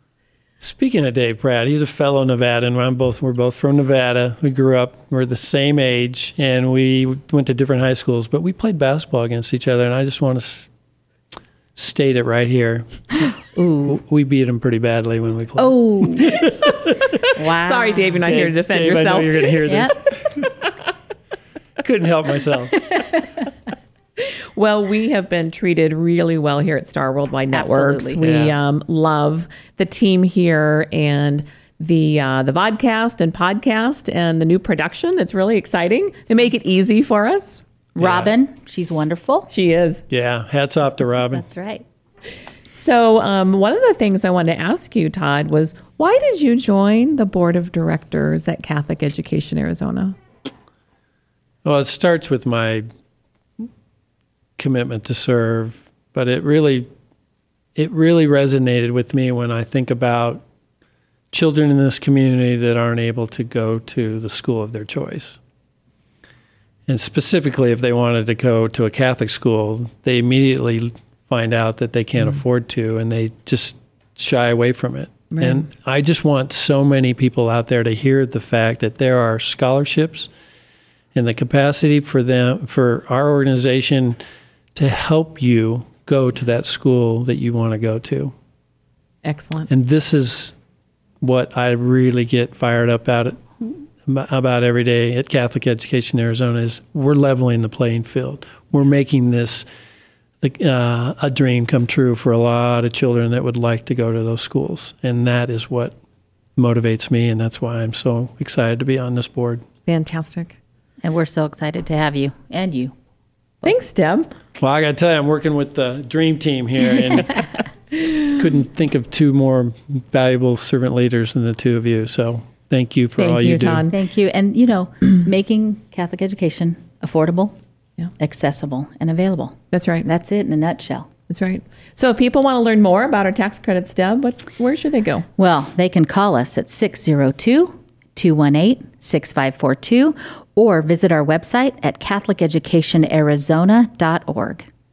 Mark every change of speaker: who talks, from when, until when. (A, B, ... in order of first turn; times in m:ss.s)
0:00.6-0:10.7 A
0:11.8-0:13.3 A
0:13.6-0:13.9 B
0:13.8-0:17.2 A
0:15.6-0:16.6 B
0:17.3-0:18.2 B
0:17.6-0:19.6 C
0:18.3-0:20.4 A
0:19.6-0:20.0 B
0:21.8-0:23.0 A
0:24.2-0:37.6 C
0:27.5-0:28.2 B
0:28.2-0:28.6 A
0:38.0-0:39.5 B
0:38.0-0:38.3 A
0:39.5-0:40.0 C
0:40.1-0:41.5 A
0:41.4-0:41.8 B
0:42.7-0:50.2 C
0:51.6-0:52.9 A
0:54.6-0:56.9 A
0:57.8-1:00.4 A
1:01.3-1:05.4 A
1:06.9-1:20.3 A
1:21.1-1:24.2 A
1:24.7-1:28.3 A
1:29.2-1:29.7 C
1:29.7-1:30.6 A
1:31.2-1:39.7 A
1:40.4-1:46.0 A
1:46.6-1:49.6 A
1:49.9-1:50.6 C
1:51.0-1:52.9 B
1:53.6-1:54.3 C
1:54.6-1:57.6 A
1:58.2-2:03.9 A
2:03.2-2:04.0 C
2:03.9-2:07.6 B
2:08.2-2:11.1 B
2:09.7-2:10.1 C
2:11.3-2:15.3 C
2:15.4-2:24.7 B